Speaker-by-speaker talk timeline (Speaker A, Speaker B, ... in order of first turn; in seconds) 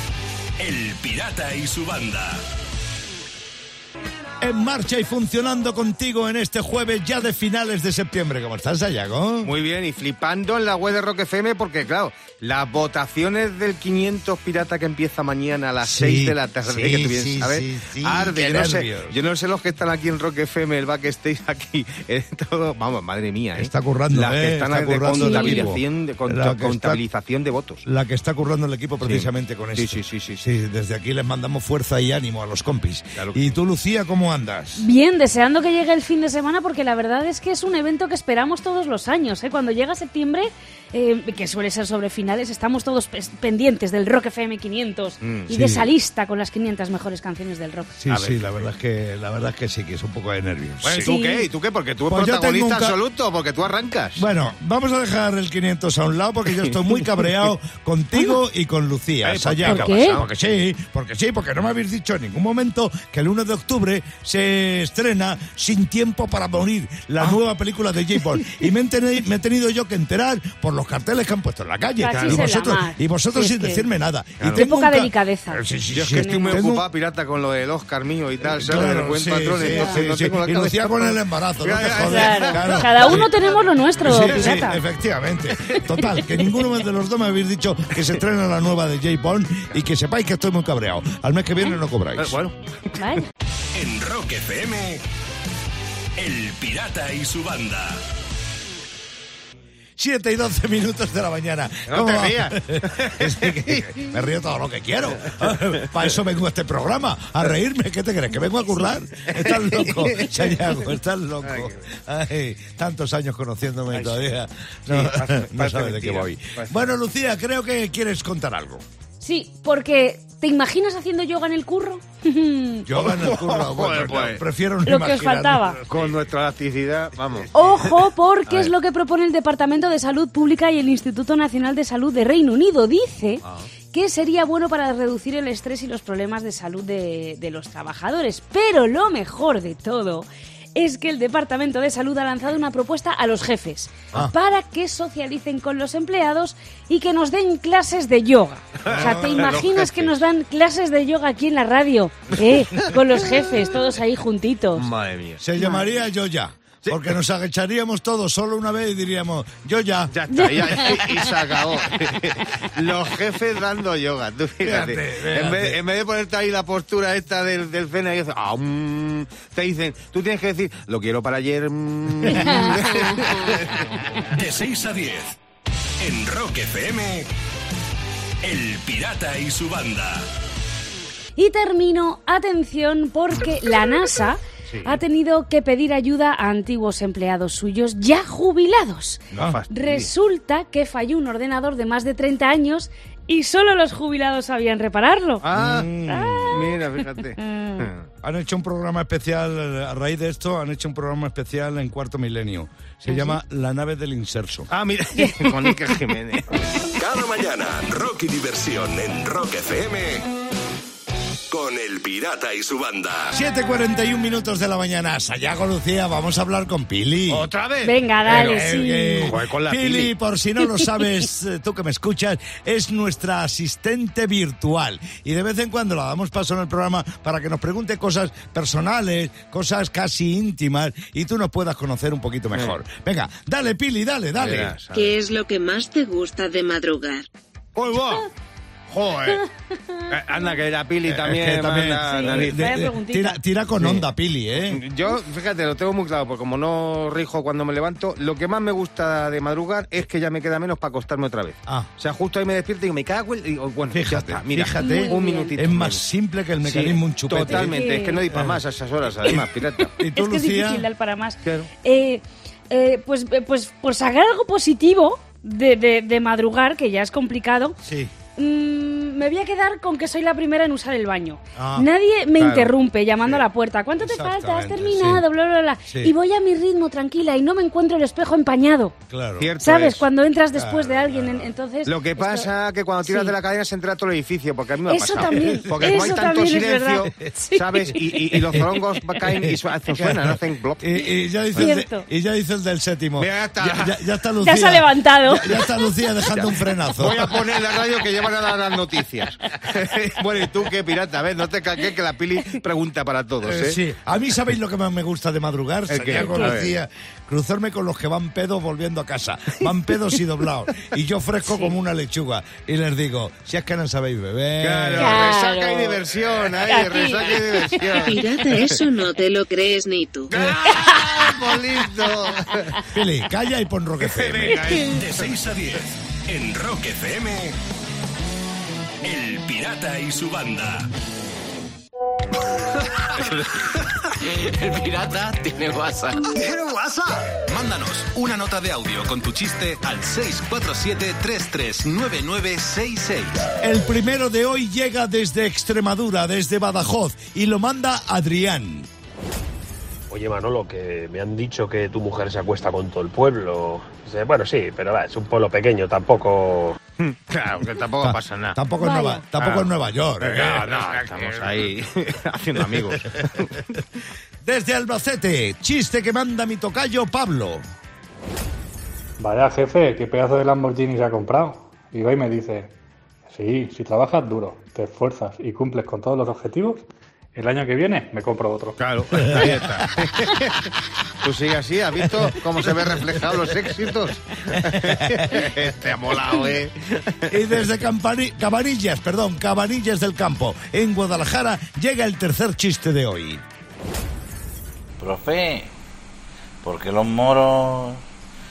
Speaker A: 0.6-2.5, 94.0-94.7, 96.5-98.0, 174.4-175.3, 176.0-177.3, 178.4-180.3, 207.0-210.3, 211.5-213.3, 324.9-327.6, 329.1-330.9
Speaker B: 4.4-9.5, 15.8-19.1, 23.6-27.0, 27.8-34.9, 45.5-45.9, 48.0-51.1, 52.0-53.0, 54.1-76.8, 78.5-83.3, 84.0-92.4, 100.0-118.8, 122.8-126.0, 148.9-149.5, 155.4-160.3, 164.6-165.8, 189.3-189.6, 195.5-196.7, 198.2-204.7, 213.3-217.5, 218.3-234.8, 241.0-244.8, 253.9-258.6, 259.2-260.9, 267.8-268.1, 271.5-271.9, 274.0-275.2, 275.9-276.1, 279.1-279.5, 280.5-281.5, 285.1-286.2, 288.4-288.8, 289.4-297.4, 303.4-315.3, 322.8-324.6, 343.6-348.9, 358.0-361.7, 364.4-367.6, 382.8-383.3, 384.9-385.4, 387.3-393.4
Speaker C: 9.4-27.8, 29.0-30.4, 33.2-33.6, 45.2-45.5, 48.1-48.7, 50.8-54.2, 59.2-60.3, 72.0-72.5, 74.4-74.7, 75.9-83.3, 84.0-84.6, 92.2-92.5, 101.9-104.0, 109.3-110.5, 111.4-111.8, 113.9-114.3, 114.9-116.9, 123.0-124.4, 125.9-127.7, 128.5-128.7, 148.8-150.2, 154.7-155.6, 160.1-174.2, 184.7-185.0, 189.3-190.1, 195.4-195.9, 196.5-198.1, 204.7-206.6, 217.3-218.7, 219.2-220.1, 232.5-232.8, 234.4-235.2, 237.8-238.3, 238.9-239.4, 240.1-242.7, 243.8-256.0, 256.6-259.9, 261.4-261.7, 272.4-272.7, 279.4-280.0, 281.9-290.9, 291.5-291.7, 293.2-294.0, 296.3-303.8, 305.9-306.7, 314.6-318.9, 320.3-322.8, 324.0-325.3, 357.0-358.6, 359.4-363.5, 378.8-380.7, 381.2-387.2
Speaker D: 25.1-25.7, 34.8-47.9, 51.0-51.5, 59.6-60.2, 72.0-73.9, 74.5-76.6, 79.7-80.0, 82.1-84.8, 92.9-95.0, 96.2-97.8, 119.2-122.9, 124.8-125.8, 127.5-154.8, 172.3-173.2, 174.3-174.8, 181.3-195.4, 196.1-196.8, 197.4-197.8, 205.2-205.7, 217.8-219.3, 239.7-240.1, 242.1-243.4, 254.8-255.5, 257.5-258.2, 260.0-267.8, 268.4-278.9, 279.6-282.5, 283.1-283.3, 284.9-288.2, 290.9-292.0, 294.4-295.7, 306.2-306.5, 315.0-316.0, 316.6-318.1, 324.8-325.6, 329.0-329.6, 358.8-359.2
Speaker E: 234.9-237.3, 318.1-320.3
Speaker F: 335.2-335.6, 336.1-343.4
Speaker G: 350.1-356.8
Speaker H: 369.2-372.7, 373.2-378.8
Speaker I: 395.0-395.7, 396.6-398.0